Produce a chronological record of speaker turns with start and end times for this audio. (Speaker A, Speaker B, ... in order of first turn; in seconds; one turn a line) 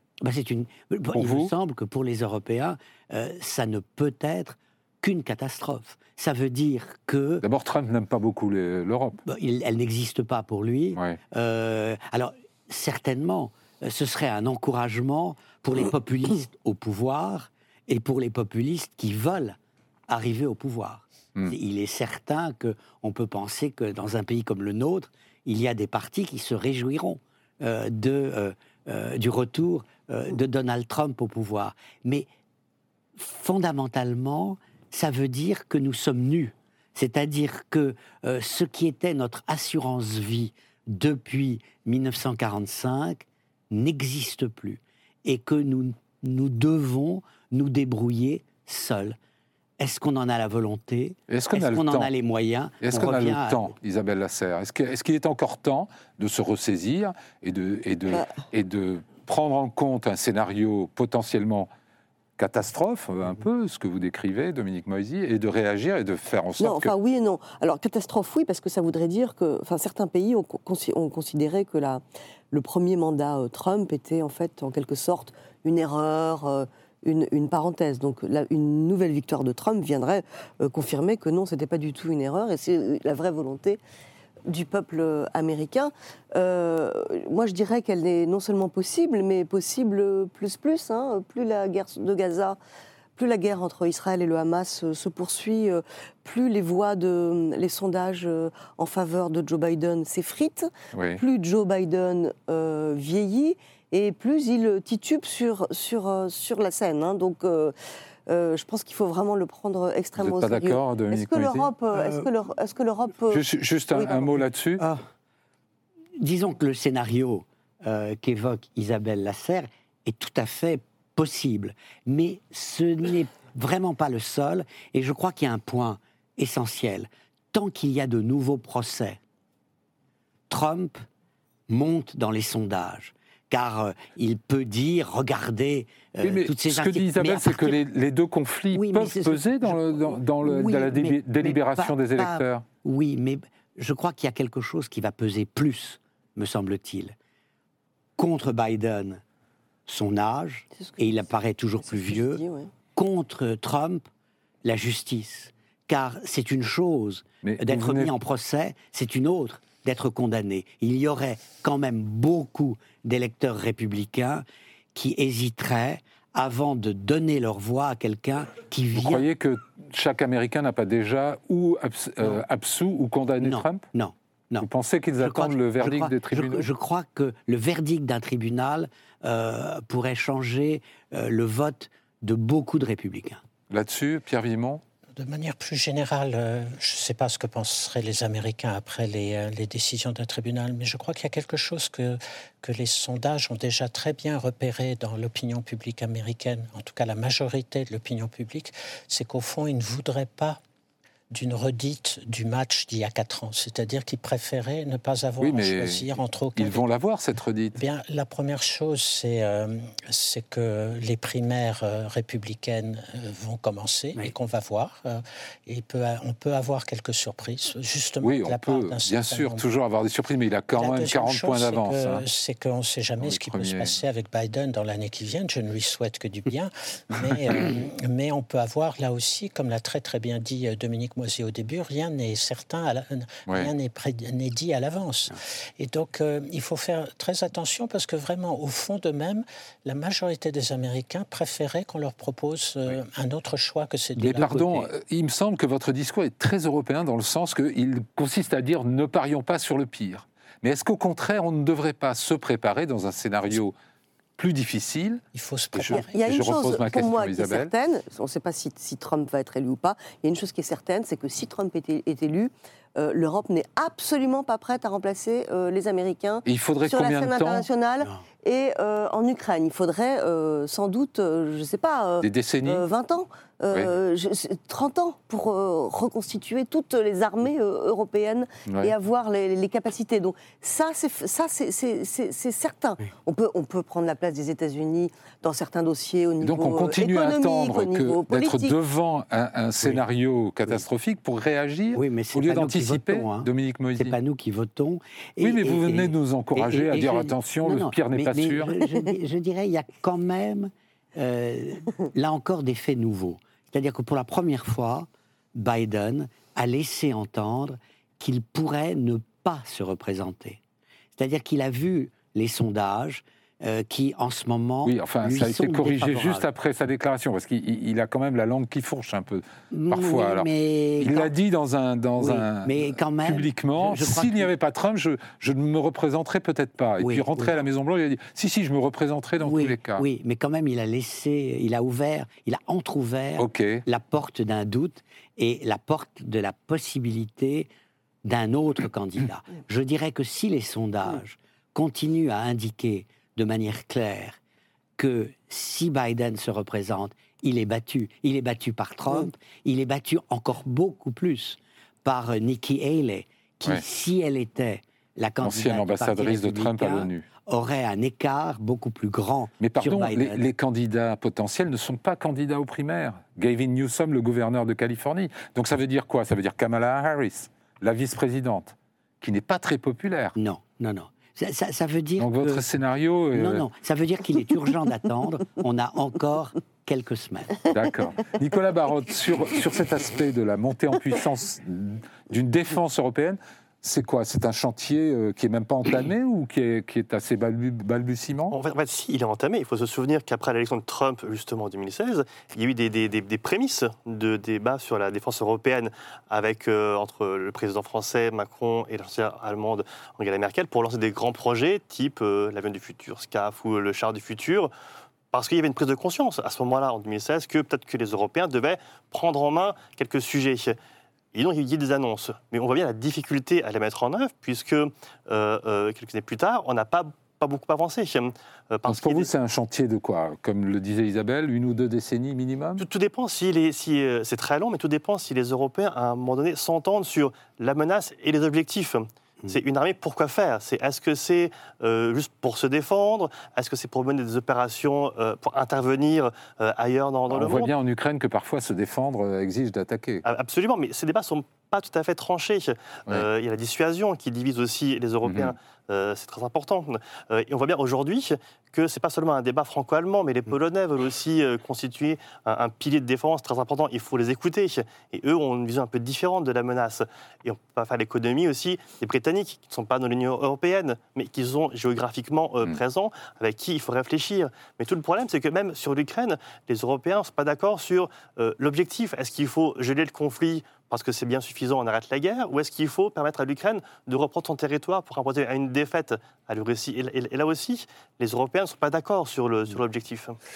Speaker A: 0.2-7.4
Speaker B: 1.1-1.5
Speaker B: 7.4-9.2
Speaker A: 9.3-32.3
Speaker A: 33.1-49.2
Speaker A: 49.8-53.7
Speaker B: 51.3-52.1
Speaker B: 52.8-61.7
Speaker C: 58.1-58.4
Speaker B: 62.4-66.9
Speaker C: 66.6-83.8
Speaker C: 84.5-92.6
Speaker C: 93.2-107.7
Speaker B: 100.9-101.2
Speaker C: 108.3-114.4
Speaker B: 110.2-111.7
Speaker A: 111.9-112.3
Speaker B: 113.3-114.8
Speaker A: 116.2-129.2
Speaker A: 130.5-131.1
Speaker A: 131.7-137.8
Speaker B: 136.2-142.6
Speaker A: 138.7-147.2
Speaker A: 148.2-149.2
Speaker A: 149.9-152.4
Speaker C: 150.8-151.1
Speaker C: 151.8-152.7
Speaker A: 152.9-154.1
Speaker A: 154.6-169.3
Speaker B: 157.4-158.1
Speaker B: 168.9-173.9
Speaker A: 173.4-174.7
Speaker B: 174.6-176.7
Speaker A: 175.2-183.4
Speaker B: 183.7-184.8
Speaker D: 185.2-200.6
Speaker D: 201.3-206.8
Speaker B: 205.4-207.8
Speaker D: 207.8-219.6
Speaker B: 218.2-222.2
Speaker D: 220.8-244.9
Speaker B: 223.2-224.0
Speaker A: 244.2-244.7
Speaker B: 244.4-253.8
Speaker B: 254.4-255.2
Speaker D: 255.3-256.2
Speaker B: 255.7-257.7
Speaker C: 255.9-288.8
Speaker B: 266.5-267.7
Speaker B: 272.2-272.9
Speaker B: 278.7-278.9
Speaker B: 286.4-294.2
Speaker A: 291.9-310.6
Speaker B: 295.4-298.8
Speaker A: 311.1-316.4
Speaker B: 314.8-320.5
Speaker A: 319.7-321.3
Speaker B: 321.0-330.0
Speaker A: 322.2-324.5
Speaker A: 327.0-327.6
Speaker A: 329.4-337.7
Speaker B: 333.4-333.8
Speaker A: 338.2-344.4
Speaker A: 345.0-360.4
Speaker B: 355.4-357.3
Speaker B: 359.6-370.4
Speaker A: 370.4-372.7
Speaker B: 372.2-373.7
Speaker A: 373.3-377.7
Speaker B: 377.7-388.6
Speaker E: 388.5-404.7
Speaker E: 405.3-410.8
Speaker E: 411.3-419.3
Speaker B: 418.9-422.9
Speaker E: 422.8-437.7
Speaker B: 437.3-440.2
Speaker E: 440.2-480.4
Speaker B: 445.3-445.6